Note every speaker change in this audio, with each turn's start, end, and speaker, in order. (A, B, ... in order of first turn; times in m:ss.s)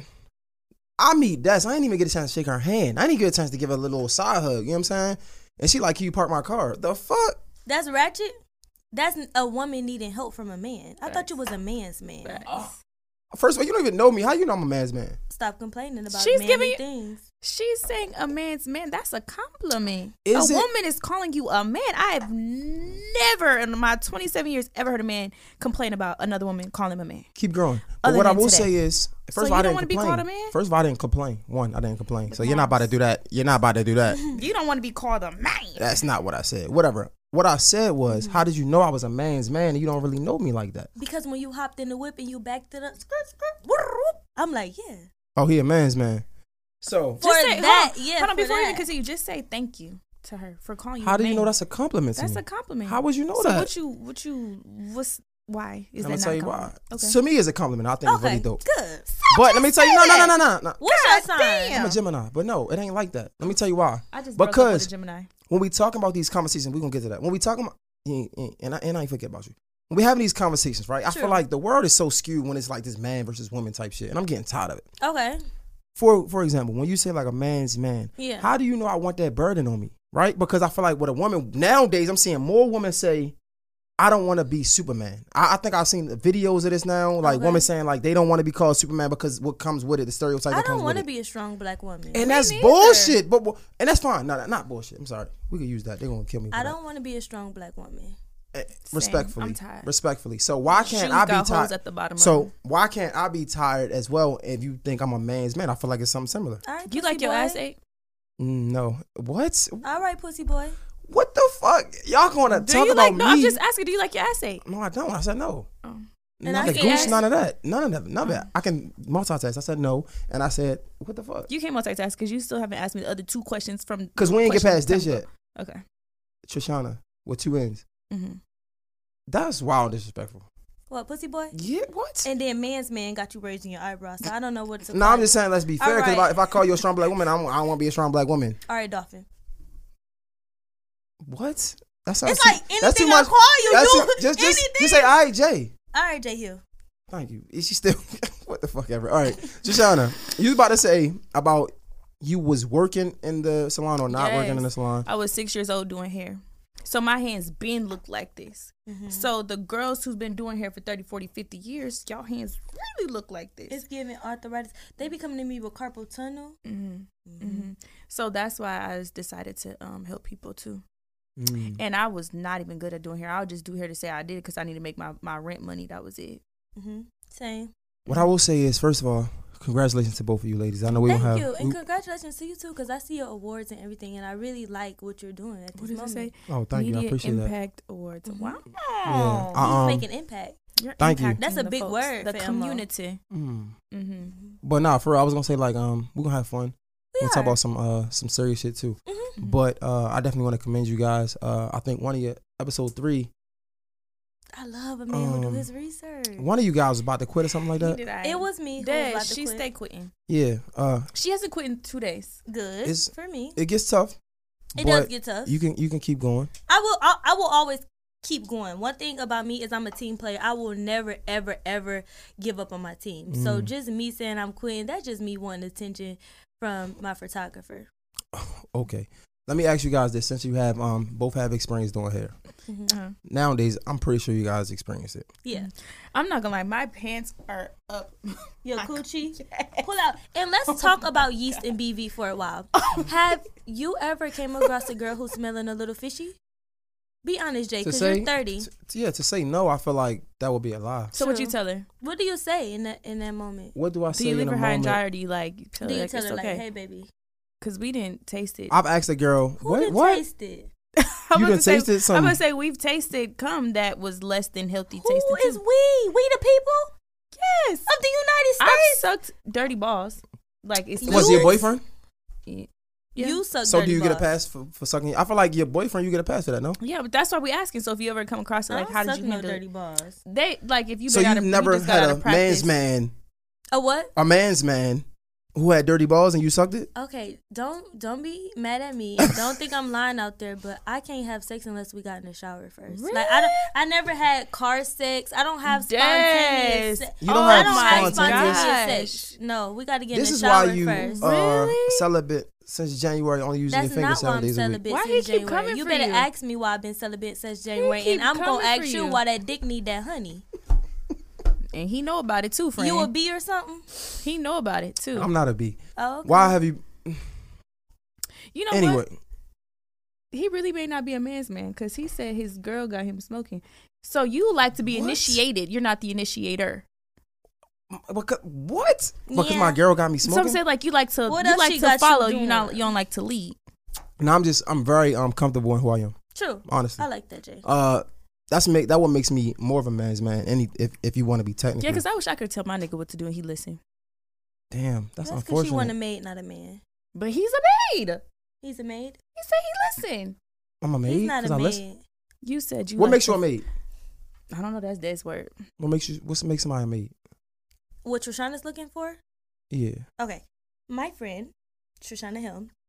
0:01.0-0:07.4 A
0:07.7-0:08.3 B
0:08.9-0:12.5 B
0:12.2-0:12.8 C
0:13.3-0:15.2 A
0:15.3-0:17.2 B
0:16.1-0:16.8 C
0:17.4-0:27.3 C
0:20.2-0:20.7 A
0:27.4-0:34.3 A
0:28.0-0:28.7 C
0:29.3-0:30.6 C
0:32.3-0:32.9 C
0:34.1-0:34.4 B
0:34.3-0:36.0 C
0:35.8-0:40.9 A
0:38.1-0:38.4 B
0:41.0-0:45.1 B
0:45.4-0:46.2 A
0:46.8-0:47.2 A
0:47.2-0:48.9 B
0:47.2-0:51.5 C
0:51.0-0:53.7 A
0:52.2-0:57.2 C
0:56.0-0:58.6 A
0:58.1-1:01.8 B
0:59.3-1:00.8 A
1:00.8-1:02.0 C
1:01.7-1:04.9 A
1:04.1-1:05.3 C
1:05.5-1:14.9 A
1:11.1-1:11.4 B
1:15.0-1:15.4 B
1:16.0-1:23.4 A
1:18.2-1:18.5 B
1:24.0-1:31.1 A
1:27.2-1:27.7 B
1:30.5-1:32.3 B
1:32.1-1:36.8 A
1:32.1-1:33.2 C
1:36.5-1:38.2 B
1:38.5-1:46.6 A
1:38.9-1:39.9 C
1:40.7-1:42.5 C
1:46.6-1:47.6 B
1:46.9-1:47.8 C
1:48.4-1:49.8 A
1:49.8-1:50.8 B
1:51.0-1:53.6 A
1:52.5-1:54.6 C
1:54.6-1:55.7 A
1:55.8-1:57.2 C
1:56.4-2:01.5 A
1:56.4-1:57.2 B
2:01.5-2:05.8 C
2:04.2-2:05.3 A
2:06.5-2:07.8 A
2:08.1-2:08.4 C
2:09.3-2:10.5 A
2:10.9-2:11.6 B
2:11.5-2:12.3 A
2:12.2-2:16.6 B
2:14.9-2:18.6 A
2:18.7-2:19.3 B
2:21.2-2:25.7 A
2:22.2-2:25.1 B
2:25.9-2:26.6 B
2:27.1-2:35.1 A
2:34.1-2:43.8 C
2:38.9-2:39.3 B
2:43.7-2:46.6 B
2:46.6-2:50.8 C
2:47.2-2:47.7 B
2:51.4-2:51.8 A
2:51.7-2:56.4 C
2:56.8-2:57.7 B
2:58.1-3:01.8 A
3:01.0-3:06.3 B
3:05.8-3:09.8 C
3:06.5-3:07.5 A
3:08.3-3:08.6 B
3:09.1-3:10.0 A
3:09.6-3:10.6 B
3:10.8-3:13.2 C
3:11.0-3:11.4 A
3:11.4-3:12.8 B
3:13.3-3:13.7 A
3:13.9-3:14.4 C
3:14.6-3:23.3 A
3:17.1-3:17.6 B
3:19.1-3:19.4 B
3:24.5-3:26.5 B
3:25.1-3:25.7 A
3:26.4-3:28.0 A
3:27.8-3:30.1 C
3:28.2-3:29.6 B
3:30.3-3:31.1 A
3:31.1-3:32.4 C
3:32.5-3:33.6 B
3:32.8-3:34.2 A
3:34.8-3:35.6 B
3:34.8-3:36.5 A
3:36.7-3:47.9 B
3:43.3-3:43.7 A
3:48.3-3:52.3 A
3:52.7-3:53.0 B
3:52.9-3:53.2 C
3:53.2-3:55.3 A
3:55.4-3:55.7 B
3:55.5-3:59.9 C
3:58.6-4:06.4 B
4:00.7-4:01.6 C
4:02.8-4:03.1 C
4:07.2-4:08.7 B
4:07.8-4:11.1 A
4:11.1-4:11.9 C
4:11.2-4:13.8 B
4:13.8-4:15.0 A
4:14.1-4:16.6 C
4:15.8-4:17.1 B
4:17.6-4:18.8 C
4:18.7-4:20.2 A
4:19.6-4:20.7 B
4:21.0-4:25.6 C
4:21.3-4:22.4 A
4:25.0-4:26.9 B
4:27.4-4:27.9 C
4:27.9-4:29.0 B
4:28.6-4:31.6 C
4:31.0-4:31.7 B
4:31.1-4:31.8 A
4:32.5-4:33.4 C
4:33.2-4:34.3 B
4:33.6-4:36.8 A
4:36.8-4:39.6 C
4:38.7-4:40.2 B
4:40.3-4:42.7 C
4:41.1-4:43.1 A
4:43.7-4:44.1 B
4:44.2-4:45.0 A
4:45.6-4:46.9 A
4:47.0-5:01.2 B
4:52.9-4:53.7 C
4:55.6-4:59.3 C
4:57.2-4:58.7 A
5:00.1-5:04.8 A
5:00.9-5:02.1 C
5:03.7-5:10.4 B
5:04.9-5:06.3 C
5:07.8-5:09.2 C
5:11.7-5:13.1 C
5:12.8-5:13.9 B
5:14.2-5:15.3 C
5:15.1-5:17.2 A
5:16.0-5:16.6 B
5:18.5-5:19.0 C
5:18.7-5:19.2 A
5:20.3-5:26.8 C
5:24.9-5:25.4 A
5:27.9-5:30.6 A
5:29.3-5:29.8 B
5:30.2-5:33.6 C
5:31.3-5:32.9 B
5:34.2-5:36.2 A
5:36.4-5:37.6 B
5:36.7-5:37.1 A
5:37.6-5:42.0 A
5:41.8-5:43.8 C
5:44.7-5:45.9 A
5:45.2-5:46.8 B
5:47.1-5:48.2 C
5:48.6-5:49.2 B
5:49.4-5:50.4 C
5:50.8-5:51.8 A
5:51.1-5:52.0 B
5:52.4-5:53.4 C
5:53.0-5:53.6 A
5:54.5-5:55.5 C
5:55.8-5:57.1 A
5:58.0-5:59.2 B
5:59.7-6:00.0 A
6:00.2-6:02.7 B